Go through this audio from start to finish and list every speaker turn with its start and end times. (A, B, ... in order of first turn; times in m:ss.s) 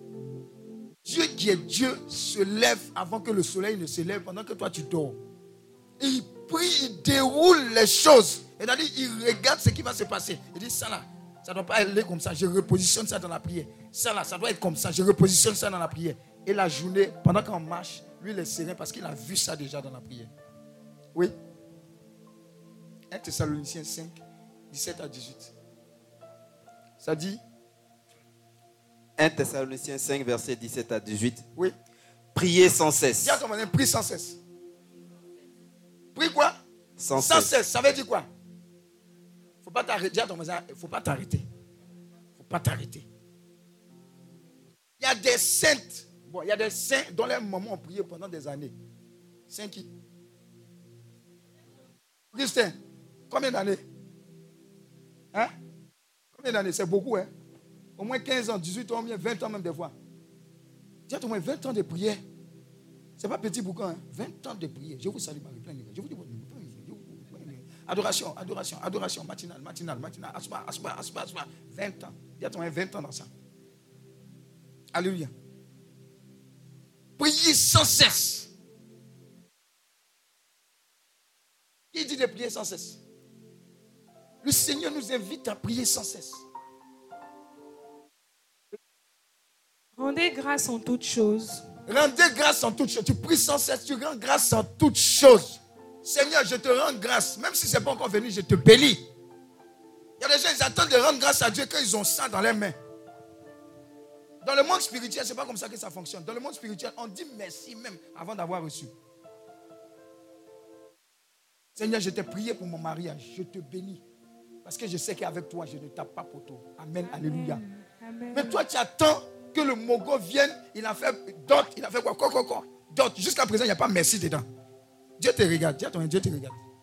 0:01.0-0:05.2 A
0:06.0-0:20.3 A
0:23.1-0:25.5 A
0:27.0-0:27.4 A
0:29.2-0:31.4 B
0:32.3-0:33.4 B
0:33.2-0:34.4 A
0:36.1-0:36.6 A
0:37.0-0:37.5 B
0:37.2-0:38.3 A
0:39.6-0:41.4 A
0:42.4-0:43.1 A
0:45.0-0:48.8 A
0:49.5-0:49.9 A
0:52.3-0:52.8 A
0:53.3-0:53.8 A
0:56.3-0:57.3 A
0:58.0-1:00.0 A
1:01.1-1:02.2 A
1:03.2-1:13.3 A
1:15.0-1:15.3 A
1:17.2-1:18.5 A
1:21.9-1:23.0 A
1:24.4-1:26.4 A
1:30.0-1:31.6 C
1:31.9-1:39.0 A
1:40.2-1:42.8 A
1:44.4-1:48.9 A
1:51.8-1:54.0 A
1:54.6-1:57.6 A
1:57.0-1:58.6 C
1:58.3-2:04.5 A
2:05.2-2:06.6 A